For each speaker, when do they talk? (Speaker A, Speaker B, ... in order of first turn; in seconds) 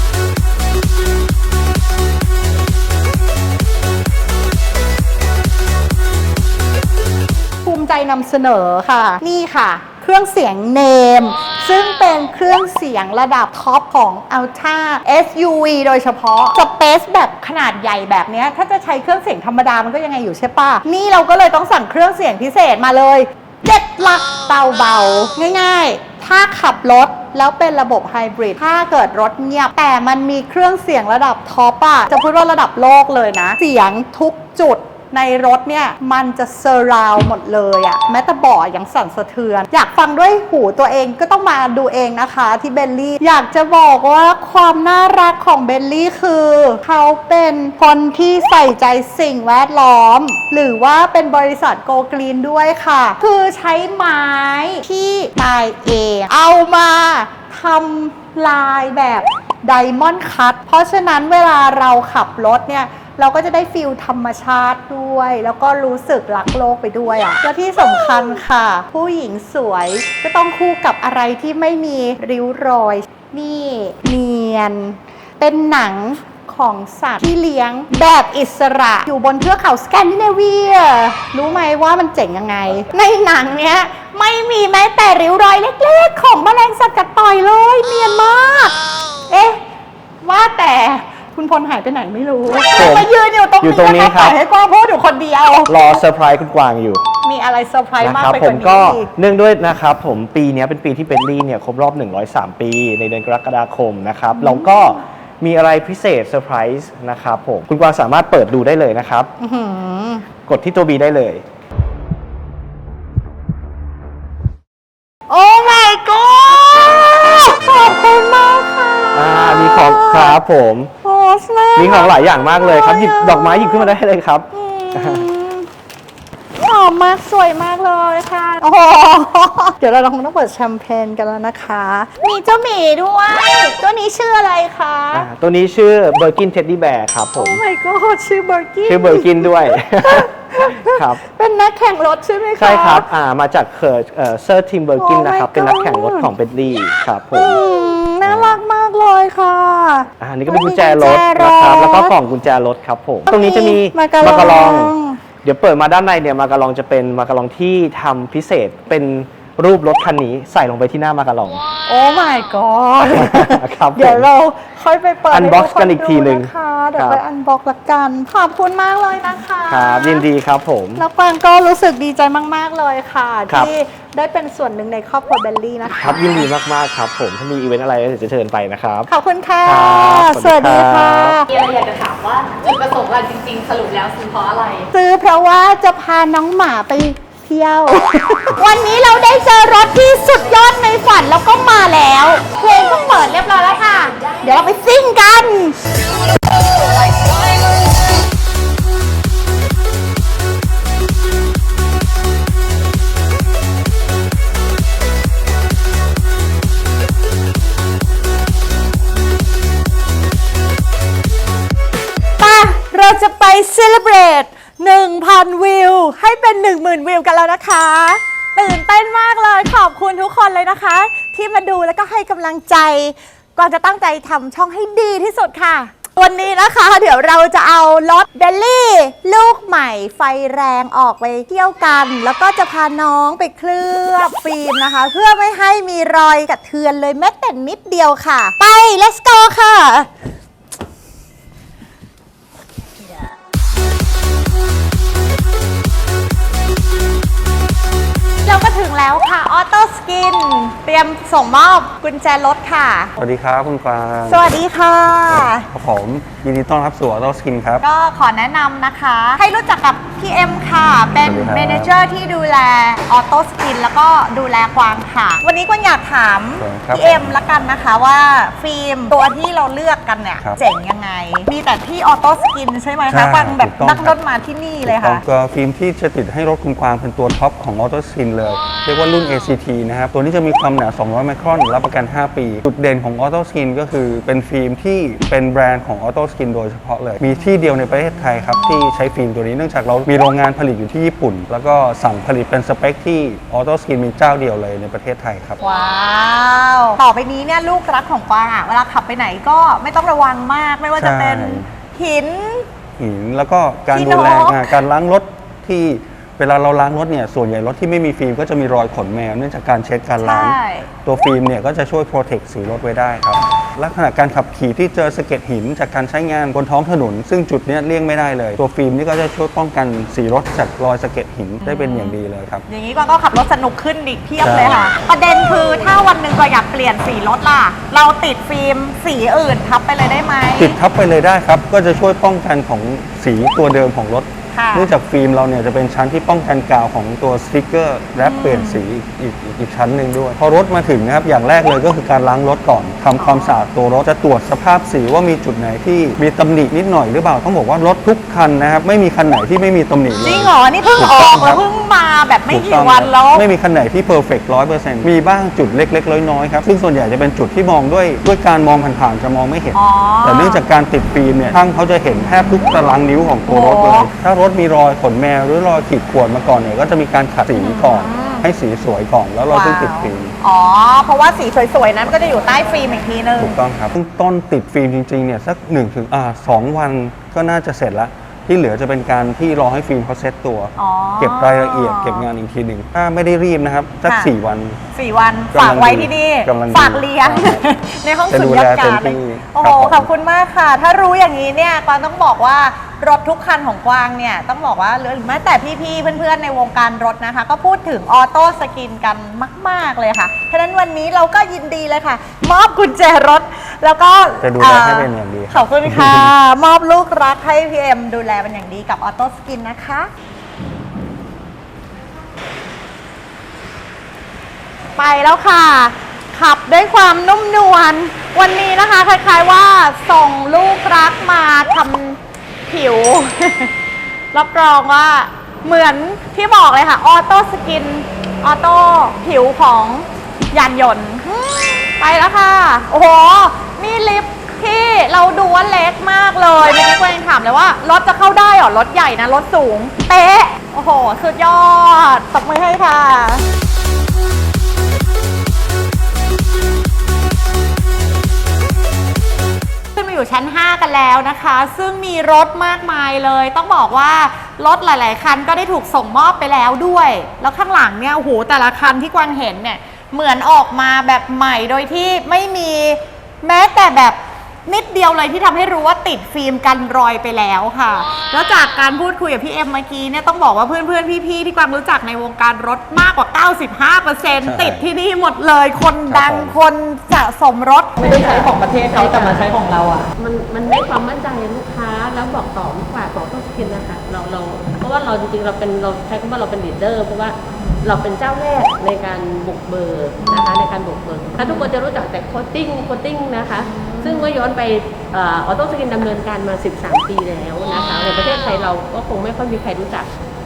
Speaker A: 7.6-88.7, 89.3-89.6, 90.2-96.0, 97.2-99.1, 104.4-104.9, 109.4-110.3, 115.3-120.4, 121.0-124.0, 124.5-125.7, 126.6-135.3, 137.4-143.1, 145.0-146.3, 147.3-152.1, 153.3-155.2, 161.9-170.2, 170.9-176.5, 179.1-181.4, 184.9-195.8, 212.4-240.1, 248.4-253.1, 254.3-255.7, 257.8-275.2, 295.6-302.6, 303.9-304.7, 310.2-310.9, 321.6-322.2, 322.7-330.8, 334.5-334.9, 338.2-338.8, 343.2-343.6, 350.2-353.4, 359.7-360.6, 363.5-364.1, 367.5-368.5, 369.5-373.6, 380.8-382.3, 384.0-384.3, 384.9-410.1, 414.9-423.7, 424.3-443.4, 449.9-480.1, 491.4-491.7, 493.7-494.2
Speaker B: 92.7-93.1, 93.6-94.3, 95.7-97.0, 98.0-109.3, 110.4-111.4, 119.1-120.9, 121.8-125.2, 135.1-137.6, 138.9-141.2, 142.6-147.6, 148.2-148.6, 150.2-161.6, 163.0-164.3, 165.3-167.2, 169.7-171.0, 173.5-173.7, 176.0-179.1, 179.6-181.4
Speaker C: 181.5-184.8
Speaker D: 181.6-184.5, 478.0-479.5, 480.2-500.1
Speaker E: 253.2-254.5, 255.1-257.8, 261.1-261.9, 266.6-267.3, 273.1-274.1, 274.8-295.6, 300.9-301.7, 303.0-322.6, 324.4-324.9, 330.6-351.6, 352.5-370.3, 373.4-384.8, 385.5-387.6, 388.3-390.1, 404.4-406.3, 474.4-474.9, 476.1-476.6